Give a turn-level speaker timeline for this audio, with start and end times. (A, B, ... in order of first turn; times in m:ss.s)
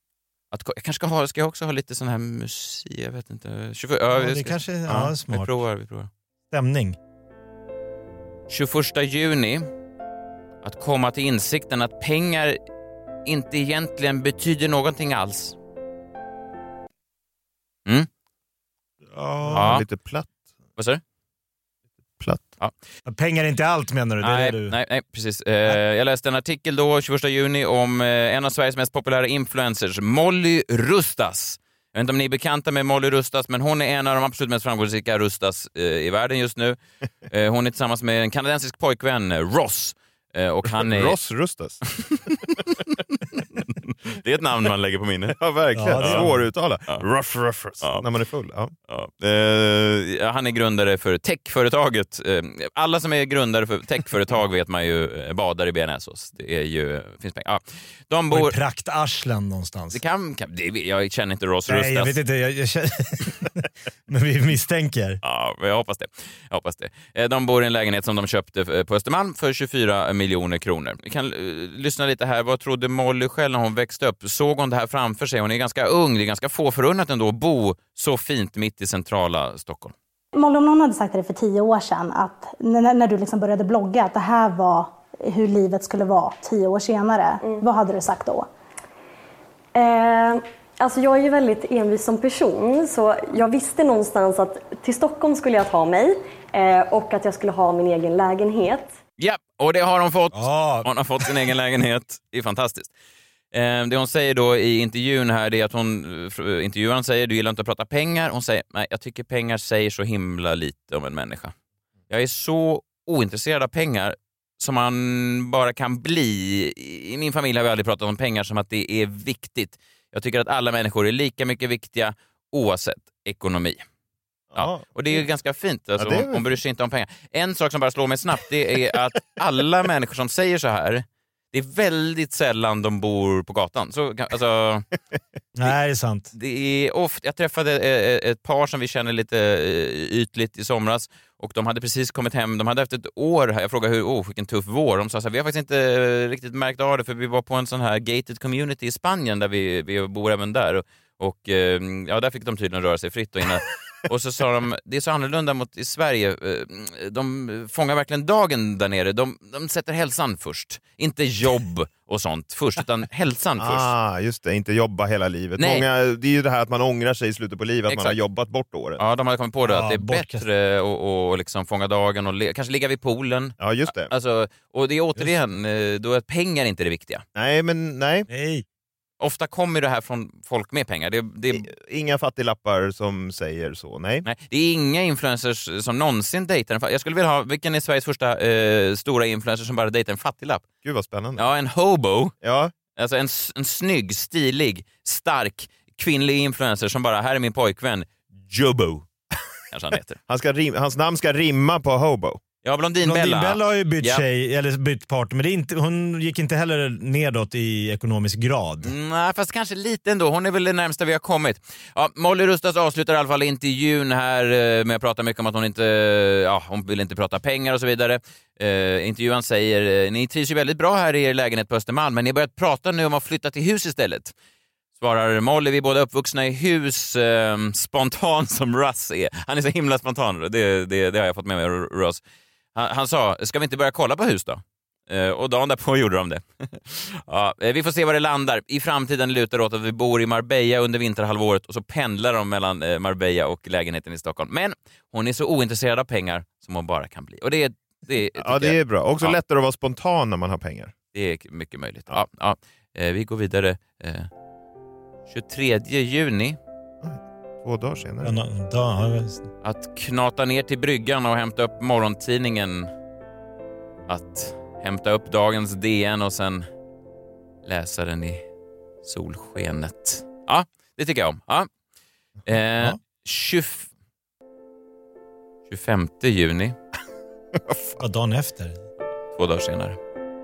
0:00.5-0:06.1 A
0:04.1-0:05.5 B
0:06.5-0:07.0 B
0:08.5-0:09.7 A
0:10.6-0:12.6 A
0:13.3-0:15.6 A
0:19.1-0:19.8 B
0:19.4-0:20.3 C
0:19.5-0:19.8 A
0:22.2-0:22.5 C
0:23.1-0:24.8 B
0:24.2-0:41.2 A
0:40.7-0:41.8 C
0:44.1-0:45.4 A
0:45.4-0:48.7 C
0:45.8-0:46.4 B
0:46.0-0:46.3 A
0:48.9-0:58.6 A
0:58.3-1:00.0 B
0:59.9-1:02.2 A
1:01.7-1:05.2 B
1:05.2-1:19.9 A
1:20.4-1:28.5 D
1:29.8-1:38.9 E
1:39.2-1:42.9 A
1:40.3-1:40.9 B
1:43.5-1:51.5 A
1:52.1-2:03.8 A
2:04.5-2:05.2 C
2:04.6-2:14.9 A
2:06.0-2:06.4 C
2:15.6-2:16.3 B
2:16.3-2:43.9 A
2:43.6-2:49.0 C
2:45.6-2:45.8 A
2:47.9-2:48.2 A
2:49.0-2:57.2 A
2:49.6-2:50.4 B
2:53.6-2:54.1 C
2:57.4-2:58.3 C
2:58.3-2:58.6 B
2:59.2-3:01.7 A
3:01.5-3:04.3 C
3:04.2-3:10.7 A
3:10.8-3:11.4 C
3:11.4-3:12.4 A
3:12.4-3:12.7 C
3:13.0-3:19.1 A
3:19.7-3:20.2 A
3:20.3-3:22.4 C
3:22.6-3:24.2 A
3:23.0-3:28.9 B
3:28.8-3:44.3 A
3:45.0-3:52.2 A
3:52.8-4:09.4 A
4:08.4-4:10.9 C
4:11.1-4:14.3 A
4:15.3-4:16.6 A
4:17.0-4:18.3 C
4:18.2-4:19.5 B
4:19.6-4:22.9 A
4:24.1-4:26.7 A
4:27.6-4:28.4 A
4:29.0-4:31.7 A
4:32.5-4:33.9 A
4:35.7-4:36.8 A
4:37.6-4:38.0 C
4:38.0-4:38.8 B
4:39.3-4:40.0 A